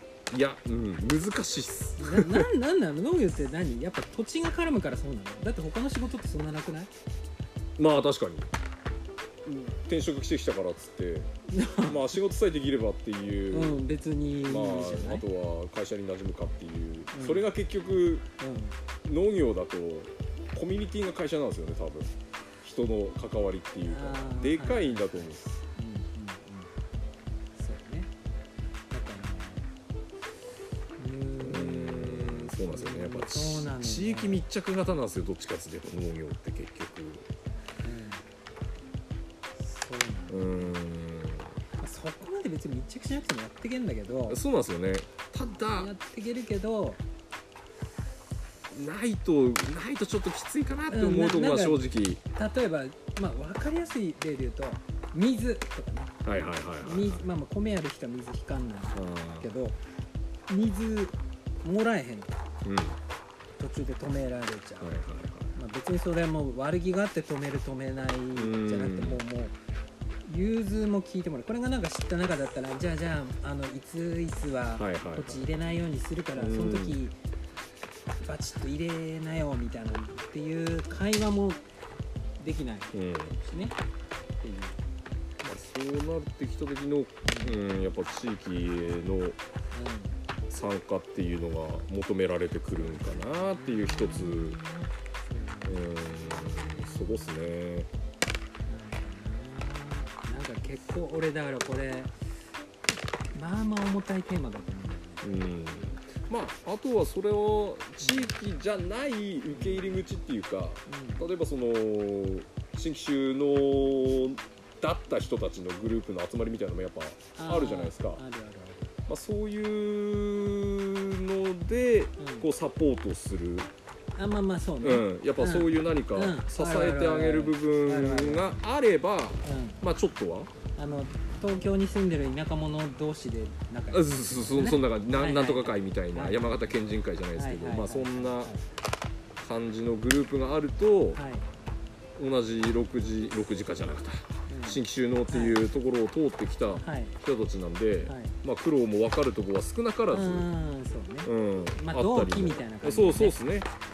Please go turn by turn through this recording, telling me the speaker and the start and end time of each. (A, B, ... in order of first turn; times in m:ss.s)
0:00.3-0:02.5 A
0:02.0-0:06.9 B
0:07.8-0:08.5 A
0:09.4-0:11.3 A
0:11.5-0:12.2 B
0:11.8-0:13.8 A
0:13.5-0:15.2 B
0:14.4-0:18.3 A
0:17.1-0:17.5 B
0:18.4-0:18.8 B
0:19.0-0:25.4 A
0:23.9-0:26.7 B
0:27.6-0:28.1 B
0:28.9-0:29.7 B
0:31.0-0:34.4 B
0:31.4-0:37.3 A
0:37.8-0:38.3 B
0:39.6-0:40.8 B
0:40.3-0:41.6 A
0:41.8-0:44.4 B
0:44.3-0:45.9 A
0:45.7-0:47.0 B
0:48.7-0:52.2 A
0:50.9-0:56.2 B
0:56.2-0:57.2 A
0:56.8-0:59.8 B
0:59.0-0:59.5 A
1:00.5-1:02.3 B
1:02.6-1:03.0 A
1:03.6-1:05.0 B
1:04.8-1:05.5 A
1:05.5-1:09.6 B
1:08.3-1:09.2 A
1:10.2-1:17.2 B
1:14.8-1:15.4 A
1:16.4-1:17.0 A
1:18.2-1:21.6 B
1:22.4-1:23.8 B
1:22.9-1:23.4 A
1:24.4-1:24.8 B
1:25.4-1:29.4 A
1:27.2-1:27.6 B
1:29.7-1:30.2 B
1:30.5-1:34.6 A
1:32.8-1:37.5 B
1:35.6-1:37.9 A
1:38.7-1:42.1 B
1:43.3-1:45.4 B
1:45.2-1:58.2 A
1:48.0-1:48.3 B
1:49.5-1:49.9 B
1:50.9-1:51.3 B
1:57.4-1:59.0 B
1:59.1-2:03.7 A
2:02.2-2:02.5 B
2:04.2-2:08.6 B
2:04.8-2:10.5 A
2:09.4-2:09.8 B
2:10.8-2:16.7 B
2:13.9-2:18.5 A
2:17.4-2:18.6 B
2:19.4-2:21.2 A
2:21.2-2:21.5 B
2:22.2-2:30.5 A
2:24.5-2:25.6 B
2:26.7-2:27.2 B
2:28.1-2:28.4 B
2:30.1-2:33.4 B
2:31.2-2:33.7 A